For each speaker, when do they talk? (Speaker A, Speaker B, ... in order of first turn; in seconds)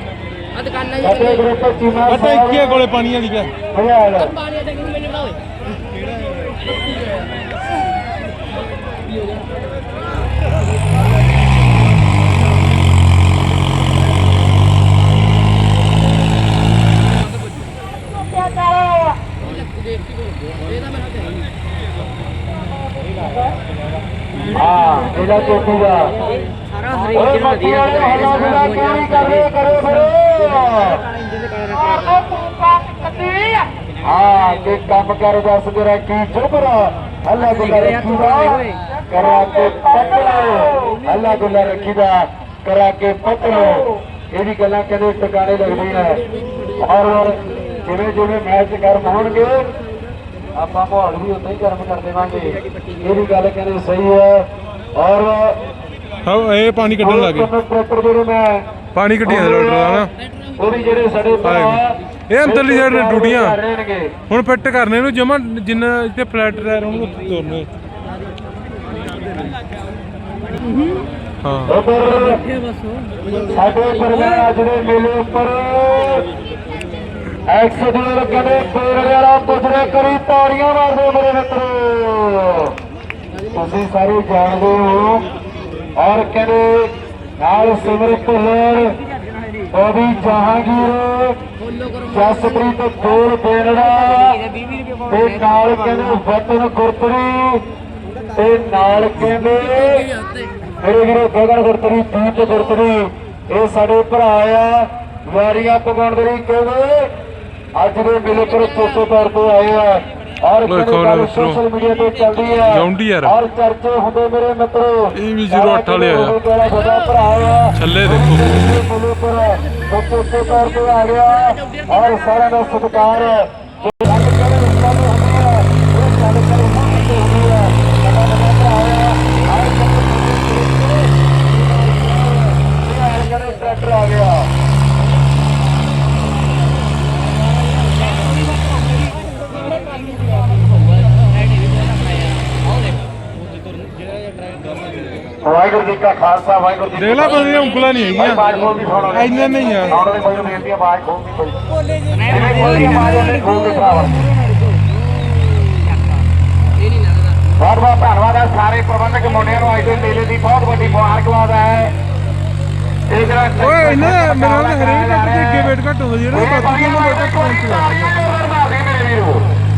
Speaker A: 0.6-1.0, 4.5-5.3, 26.9-28.9, 31.5-33.7, 94.6-95.0, 152.4-152.9
Speaker B: 1.0-2.8, 3.7-4.4, 24.5-26.1, 27.1-31.0, 34.0-46.2, 46.8-49.6, 50.5-55.6, 57.0-58.6, 59.2-60.0, 60.6-64.1, 71.7-72.4, 73.3-76.2, 77.5-82.7, 83.5-85.2, 86.0-88.9, 89.7-91.4, 92.1-94.4, 95.0-97.6, 98.3-100.1, 100.8-107.1, 107.8-134.5, 145.4-149.3, 149.9-151.7, 152.2-154.2, 157.6-161.9, 163.1-165.7, 166.3-169.4
Speaker C: 2.1-3.5, 56.2-57.5, 58.9-60.1, 61.4-63.6, 64.3-67.7, 71.4-71.7, 110.7-111.6, 112.7-113.3, 115.2-116.4, 117.7-118.7, 146.9-148.5, 149.1-150.0, 163.6-168.1